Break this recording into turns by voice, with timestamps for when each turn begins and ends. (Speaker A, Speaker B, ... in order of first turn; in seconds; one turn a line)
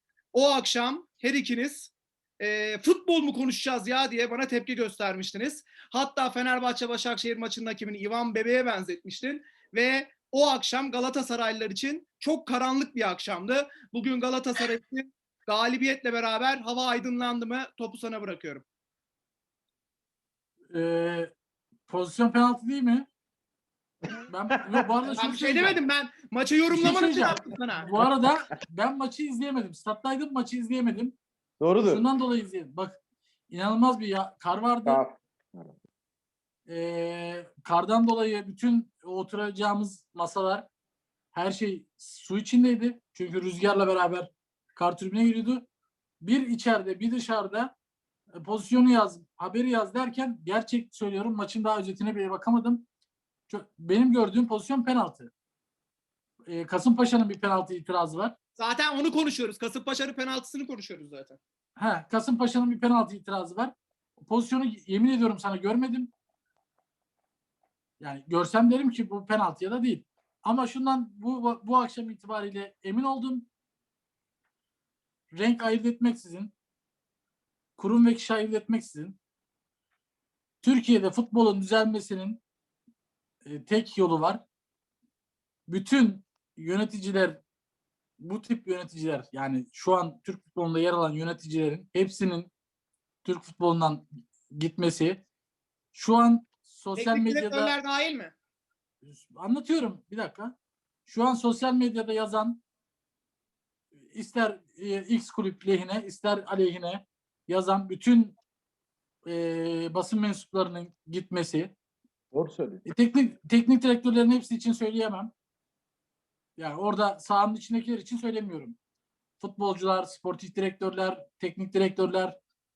Speaker A: 0.3-18.6
Speaker B: 20.7-21.3
Speaker B: 21.9-23.1
Speaker B: 24.3-25.8
Speaker A: 25.1-27.9
Speaker B: 26.7-31.1
Speaker C: 31.6-32.0
Speaker B: 31.8-33.0
Speaker B: 33.5-35.0
Speaker C: 34.8-35.7
Speaker B: 36.7-40.7
Speaker B: 41.3-45.6
Speaker B: 46.2-47.7
Speaker B: 48.4-52.9
Speaker B: 53.5-55.3
Speaker B: 56.5-58.3
Speaker A: 58.5-61.4
Speaker B: 61.8-66.1
Speaker B: 68.0-73.5
Speaker B: 75.3-76.5
Speaker B: 77.8-79.2
Speaker B: 80.6-82.4
Speaker B: 83.4-84.4
Speaker B: 85.7-87.4
Speaker B: 88.2-92.5
Speaker B: 93.2-95.2
Speaker B: 95.9-97.7
Speaker A: 97.0-98.3
Speaker B: 99.0-100.5
Speaker B: 101.0-102.6
Speaker B: 104.1-108.4
Speaker B: 109.2-111.7
Speaker C: 112.3-112.8
Speaker B: 112.8-115.3
Speaker B: 116.6-118.8
Speaker B: 119.4-122.3